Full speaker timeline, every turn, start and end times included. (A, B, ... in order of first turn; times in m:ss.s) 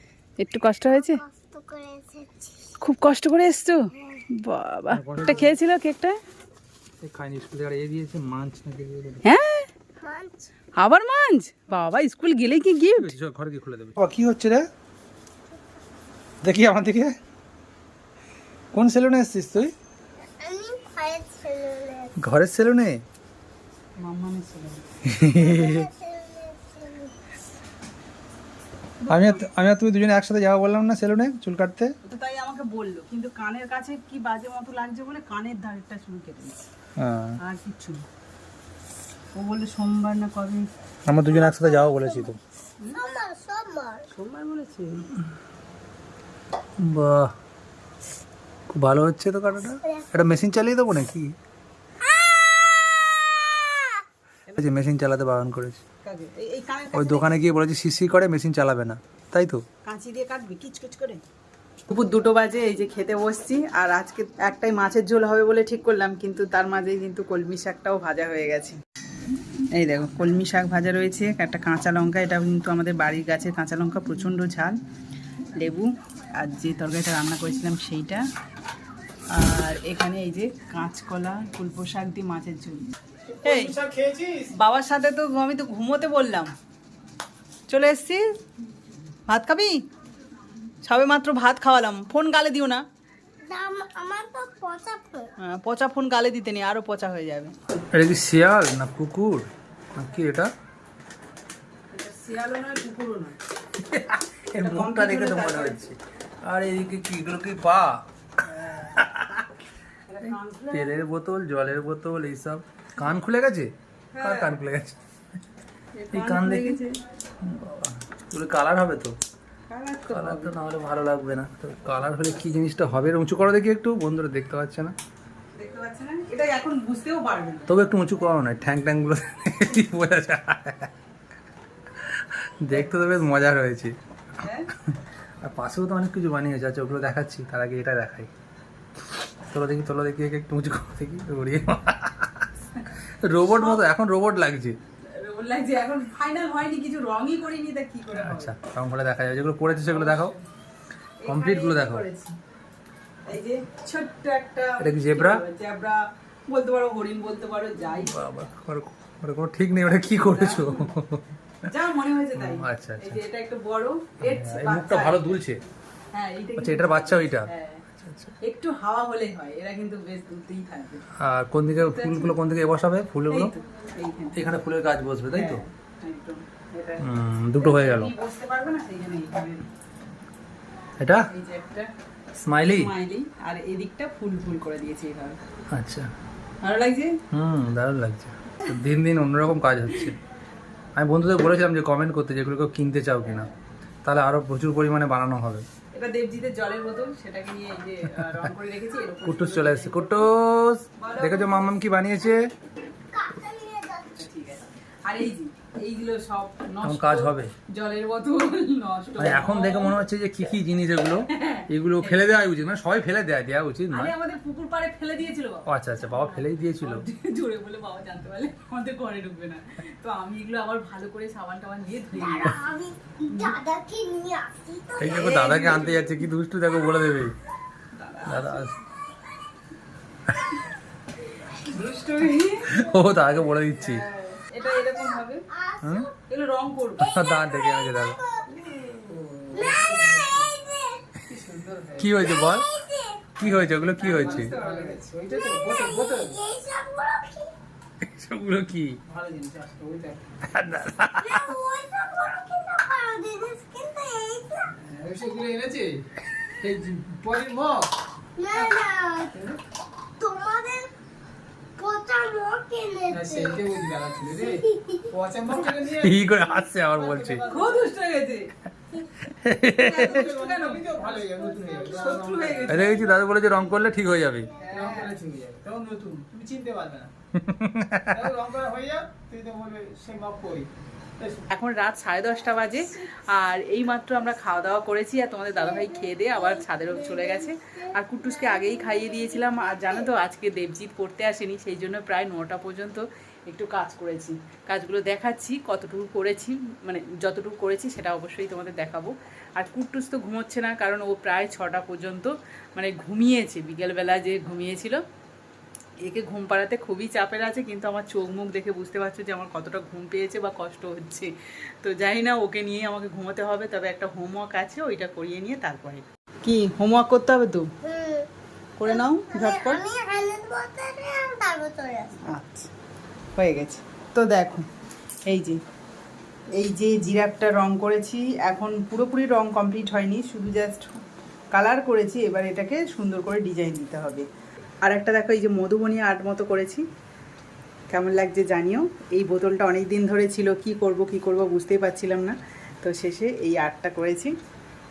0:00.4-0:01.2 A
0:00.9-0:02.7 B
0:02.8-0:06.2 A
0:04.9-0:05.6 C
0:07.0-0:09.2 C
0:09.2-0:09.7 A
0:10.0-0:10.5 B
0:10.8-0:13.1 A
0:13.0-0:14.7 C
0:16.4-0:17.2 C
0:18.7-0:19.7 C
0:20.4-0:22.1 B
0:22.2-0:23.0 C
0:24.0-0:24.8 A
0:25.0-0:25.9 C
0:25.3-0:27.1 B
0:29.0-0:29.5 A
0:29.1-0:32.0 C
0:32.0-0:36.6 A
0:37.0-0:37.4 C
0:37.4-0:38.0 A
0:39.4-0:40.7 A
0:41.1-0:42.4 C
0:41.3-0:42.4 B
0:42.9-0:44.1 B
0:44.1-0:45.1 A
0:46.8-0:47.3 C
0:48.7-0:51.4 C
0:49.8-0:50.1 B
0:52.0-0:54.0 B
0:54.6-0:55.8 C
0:56.0-0:57.3 A
0:56.9-0:59.6 C
0:59.8-1:01.2 A
1:01.9-1:08.8 A
1:09.8-1:14.8 A
1:15.6-1:18.2 A
1:19.3-1:22.9 A
1:23.4-1:24.5 D
1:23.4-1:23.8 A
1:24.5-1:26.5 A
1:27.7-1:28.2 A
1:29.3-1:29.8 A
1:30.8-1:32.8 A
1:33.5-1:35.3 B
1:35.4-1:37.5 A
1:37.9-1:40.5 C
1:41.9-1:43.4 A
1:43.8-1:48.0 C
1:44.6-1:45.9 A
1:48.4-1:49.0 A
1:49.0-1:49.5 C
1:50.1-1:51.0 A
1:50.2-1:55.0 C
1:54.1-1:54.6 A
1:56.0-1:57.0 A
1:56.1-1:56.8 C
1:57.4-1:59.2 C
1:59.7-2:00.6 A
2:00.1-2:04.9 C
2:05.6-2:07.8 A
2:07.7-2:10.9 C
2:12.0-2:14.0 C
2:14.4-2:14.7 A
2:14.8-2:18.3 C
2:19.5-2:22.5 C
2:23.2-2:24.8 C
2:23.4-2:23.8 A
2:25.1-2:28.5 A
2:28.1-2:30.3 C
2:29.9-2:30.4 A
2:31.2-2:32.3 A
2:31.3-2:32.0 C
2:33.3-2:38.2 A
2:34.8-2:35.4 C
2:38.1-2:41.3 C
2:40.2-2:40.9 A
2:41.7-2:45.4 A
2:42.4-2:43.2 C
2:44.2-2:45.6 C
2:46.1-2:47.8 A
2:46.6-2:48.4 C
2:48.4-2:51.0 A
2:51.2-2:53.5 C
2:51.8-2:52.4 A
2:53.3-2:54.4 A
2:54.4-2:55.6 C
2:55.3-2:57.1 A
2:57.0-2:58.1 C
2:57.6-2:59.7 A
3:01.0-3:01.3 C
3:01.3-3:01.9 A
3:02.4-3:02.9 C
3:02.6-3:05.4 A
3:05.7-3:06.1 C
3:06.6-3:07.2 A
3:07.3-3:10.2 C
3:11.0-3:13.5 C
3:14.0-3:15.6 C
3:15.9-3:20.2 A
3:19.2-3:22.5 C
3:21.0-3:21.7 A
3:23.1-3:24.2 B
3:24.2-3:30.0 A
3:26.8-3:27.5 C
3:29.2-3:34.1 C
3:31.3-3:32.2 A
3:33.9-3:42.6 A
3:35.7-3:37.1 C
3:42.1-3:46.0 B
3:43.3-3:43.6 A
3:45.0-3:47.4 C
3:45.2-3:46.0 A
3:47.9-3:48.7 A
3:48.2-3:48.7 C
3:51.5-3:52.7 A
3:52.7-3:54.0 C
3:53.8-3:55.5 A
3:54.8-3:56.1 B
3:55.8-3:56.1 C
3:56.3-3:57.1 A
3:57.0-3:58.2 C
3:57.0-4:01.2 B
3:59.1-4:00.5 D
4:01.3-4:02.2 D
4:02.0-4:02.7 C
4:02.2-4:03.4 B
4:03.4-4:04.5 C
4:03.4-4:06.4 D
4:04.0-4:05.0 A
4:05.3-4:07.5 B
4:08.0-4:09.0 C
4:09.1-4:10.2 D
4:10.5-4:11.5 C
4:11.2-4:14.7 B
4:14.7-4:16.1 D
4:16.6-4:17.9 D
4:18.4-4:19.3 B
4:18.6-4:18.9 A
4:19.3-4:19.6 D
4:20.2-4:20.9 B
4:21.8-4:23.6 B
4:23.1-4:27.9 D
4:24.3-4:25.2 B
4:26.0-4:27.4 C
4:27.5-4:28.5 A
4:29.2-4:30.2 C
4:29.7-4:33.0 A
4:29.9-4:32.9 D
4:31.1-4:33.2 B
4:32.6-4:34.5 C
4:34.6-4:35.2 A
4:34.7-4:37.1 D
4:37.4-4:38.2 C
4:38.1-4:41.4 D
4:41.5-5:05.0 A
4:45.7-4:50.0 B
5:06.0-5:17.7 A
5:17.8-5:18.3 B
5:18.8-5:19.8 A
5:18.9-5:22.2 B
5:22.2-5:22.7 A
5:23.4-5:24.7 A
5:25.3-5:25.6 A
5:26.5-5:30.9 A
5:31.5-5:34.3 A
5:34.8-5:36.8 A
5:37.9-5:44.3 A